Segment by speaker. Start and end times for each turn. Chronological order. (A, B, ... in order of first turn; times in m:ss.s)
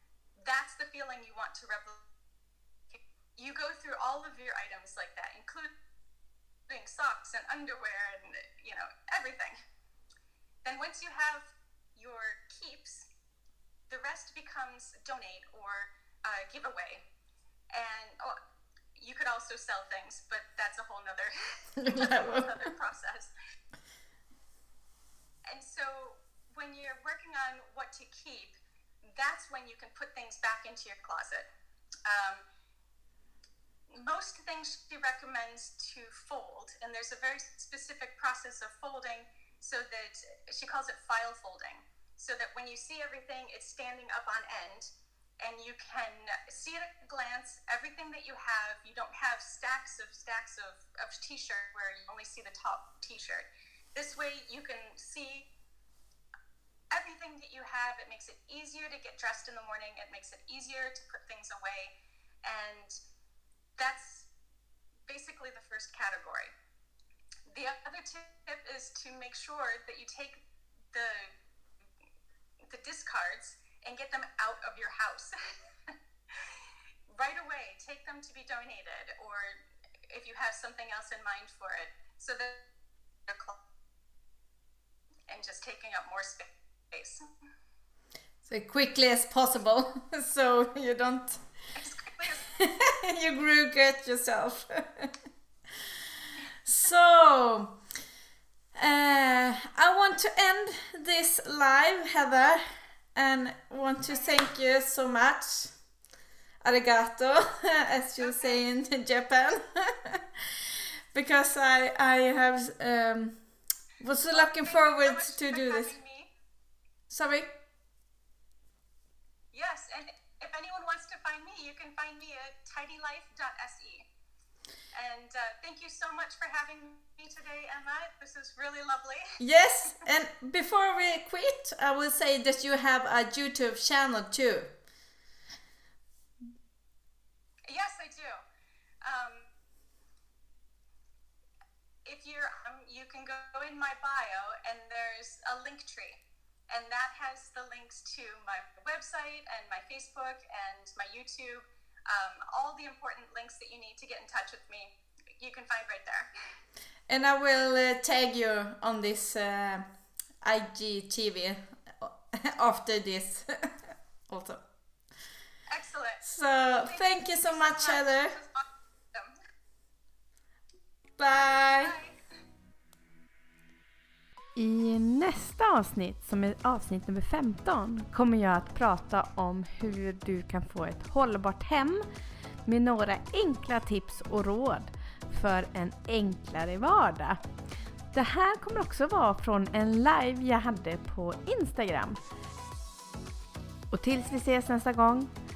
0:00.4-0:02.1 A
0:02.9-0:05.7 A
0:06.7-0:09.5 A
0:10.6-0:13.1 A
0:13.9-0:17.0 A
0:17.7-0:18.3 A
0:19.0-0:23.3 A
0:21.8-0:22.6 B
0:25.5-0:28.6 A
0:29.1-0:31.5 A
0:32.1-0:32.4 A
0:33.9-0:44.9 A
0:45.4-0:55.5 A
0:56.9-1:01.9 A
1:02.4-1:03.0 A
1:03.8-1:04.3 A
1:05.1-1:06.6 A
1:07.5-1:10.4 A
1:10.9-1:11.3 A
1:12.7-1:15.4 A
1:15.9-1:19.6 A
1:20.1-1:22.7 A
1:23.3-1:23.6 A
1:25.3-1:27.2 A
1:28.4-1:31.4 B
1:31.8-1:32.4 A
1:32.5-1:35.1 B
1:36.6-1:37.8 B
1:38.8-1:42.6 B
1:43.1-1:45.8 B
1:44.1-1:44.4 A
1:46.6-1:50.2 B
1:48.2-1:48.6 A
1:51.1-1:53.4 B
1:54.0-1:56.0 B
1:54.3-1:56.3 A
1:57.1-1:57.5 B
1:59.5-2:04.1 A
2:04.9-2:09.3 A
2:09.4-2:14.7 B
2:17.7-2:18.4 A
2:19.0-2:19.5 A
2:22.0-2:26.2 A
2:26.7-2:36.3 A
2:37.1-2:39.9 B
2:40.4-2:44.6 B
2:45.7-2:46.2 A
2:46.2-2:48.4 B
2:46.8-2:49.3 A
2:51.2-2:52.0 B
2:51.8-2:52.2 A
2:54.6-3:02.1 C
3:02.7-3:07.4 C
3:08.1-3:12.2 C
3:13.9-3:15.3 C